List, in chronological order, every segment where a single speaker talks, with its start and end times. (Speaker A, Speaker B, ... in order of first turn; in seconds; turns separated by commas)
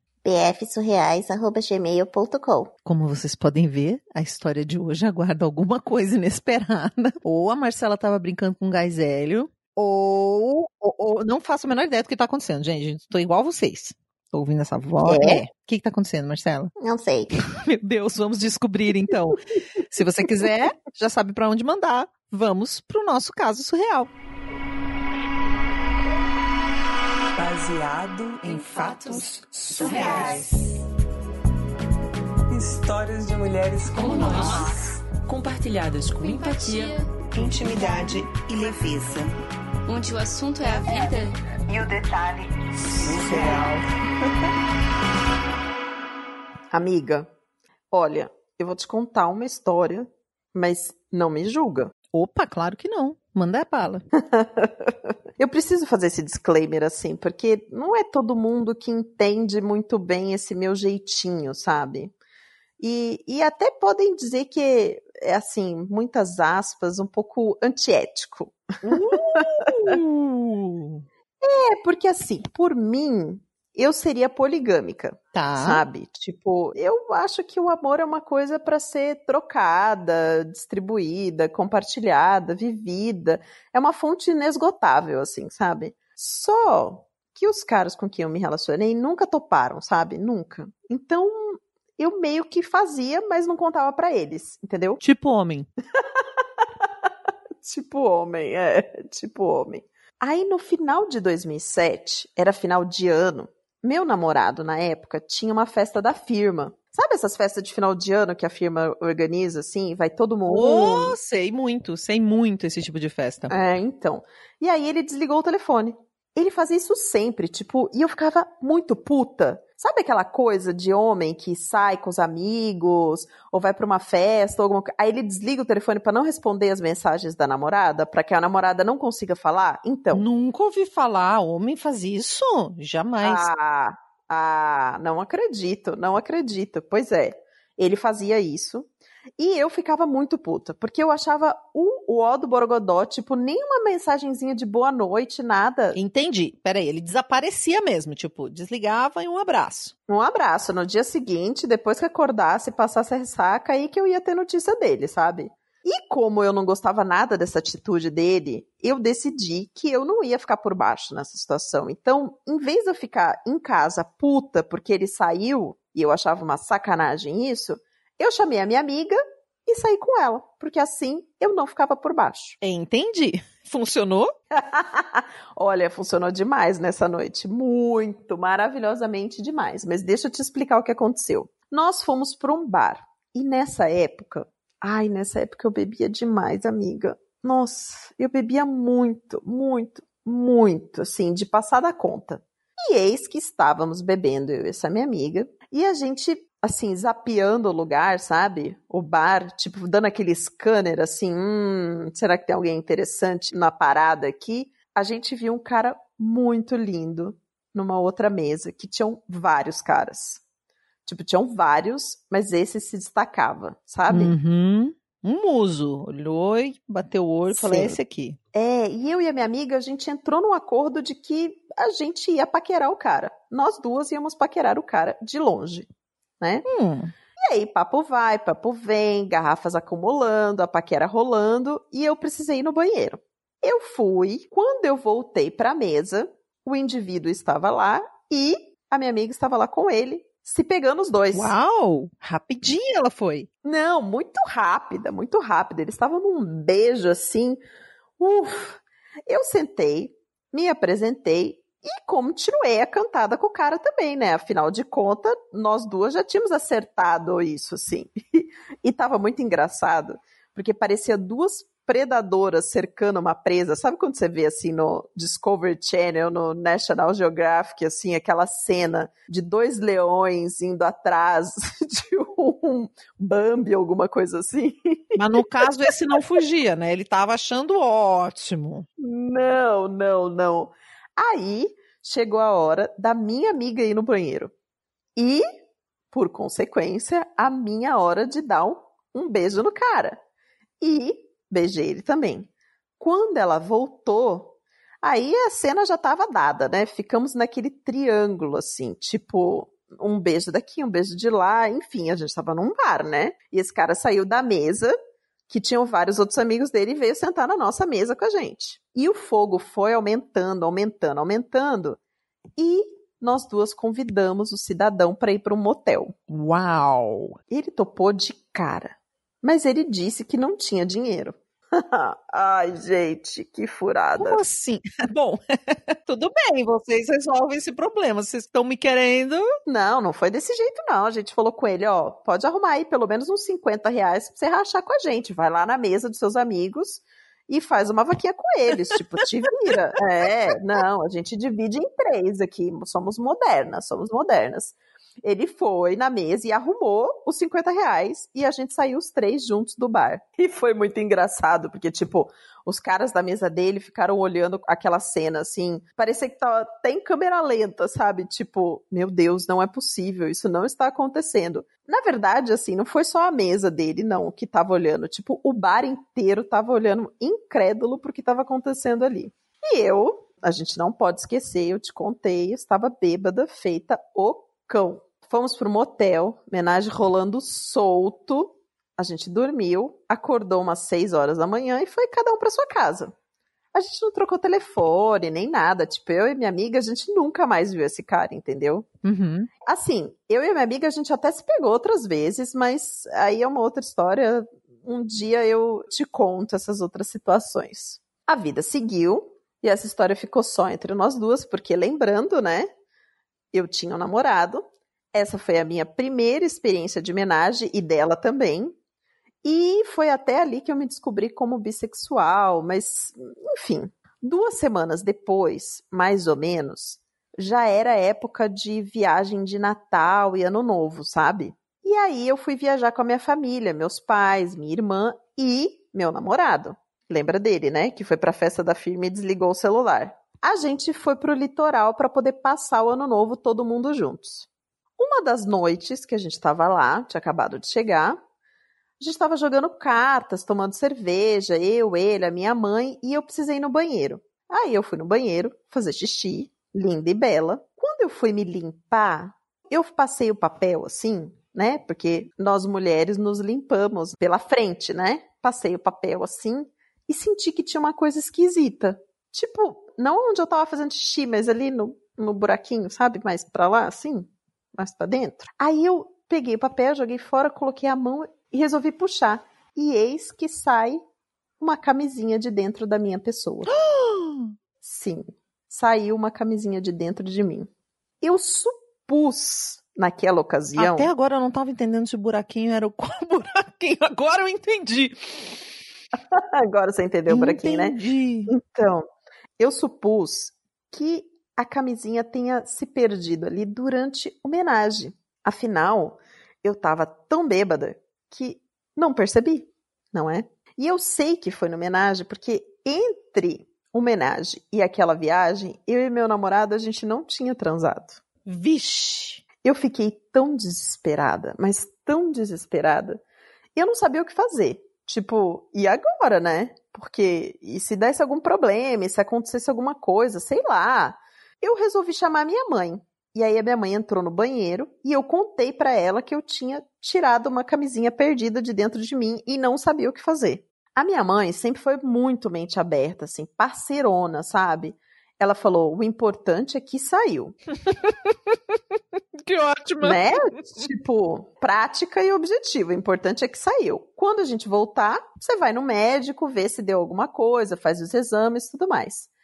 Speaker A: 0.2-2.7, Speaker B: 2.9-16.7, Speaker A: 15.0-15.4, Speaker A: 16.8-17.3, Speaker B: 17.5-24.1, Speaker C: 27.4-30.3, Speaker D: 28.4-30.5, Speaker B: 28.5-30.6, Speaker E: 28.5-30.5, Speaker C: 32.5-34.7, Speaker D: 33.9-34.7, Speaker F: 34.0-34.7, Speaker D: 35.4-38.8, Speaker F: 36.2-37.1, Speaker E: 37.5-39.1, Speaker C: 37.7-38.1, Speaker F: 39.9-41.4, Speaker E: 42.0-42.4, Speaker E: 43.0-43.8, Speaker C: 43.0-43.6, Speaker D: 43.2-43.7, Speaker G: 46.7-47.3, Speaker G: 47.9-51.9, Speaker B: 52.1-54.0, Speaker G: 54.3-62.1, Speaker G: 62.8-70.0, Speaker B: 68.9-71.0, Speaker G: 71.4-95.0, Speaker B: 75.3-75.8, Speaker B: 95.0-95.7, Speaker G: 97.6-111.2, Speaker B: 110.5-113.5, Speaker G: 113.5-130.3, Speaker B: 130.1-133.5, Speaker G: 133.2-146.0, Speaker B: 145.9-149.9, Speaker G: 150.1-172.6, Speaker B: 172.6-174.3, Speaker G: 174.6-210.4, Speaker G: 211.1-214.3, Speaker B: 214.1-218.4, Speaker G: 217.5-218.0, Speaker G: 218.5-225.9, Speaker B: 226.7-227.1, Speaker G: 227.5-241.6, Speaker B: 241.3-243.5, Speaker G: 243.6-247.6, Speaker G: 248.2-275.0, Speaker B: 275.2-278.9, Speaker G: 279.0-284.5, Speaker G: 285.2-285.4, Speaker G: 286.1-290.2, Speaker G: 290.8-304.9, Speaker G: 305.5-312.0, Speaker G: 312.6-316.1, Speaker B: 316.3-317.4, Speaker G: 317.5-324.4, Speaker B: 324.2-329.4, Speaker G: 329.7-383.1, Speaker G: 383.7-388.9, Speaker B: 389.1-389.5, Speaker G: 389.7-402.7, Speaker G: 403.5-404.6, Speaker G: 405.1-408.7, Speaker G: 409.4-438.2, Speaker G: 439.0-471.0, Speaker G: 471.6-473.7, Speaker B: 473.7-474.5, Speaker G: 474.8-477.7, Speaker G: 478.2-481.1, Speaker B: 480.8-485.6, Speaker G: 486.3-489.0, Speaker B: 487.3-488.5, Speaker G: 489.6-508.2, Speaker B: 508.5-509.4, Speaker G: 509.6-513.2, Speaker G: 513.8-537.6, Speaker B: 537.9-538.8, Speaker B: 539.4-540.9, Speaker G: 540.0-549.3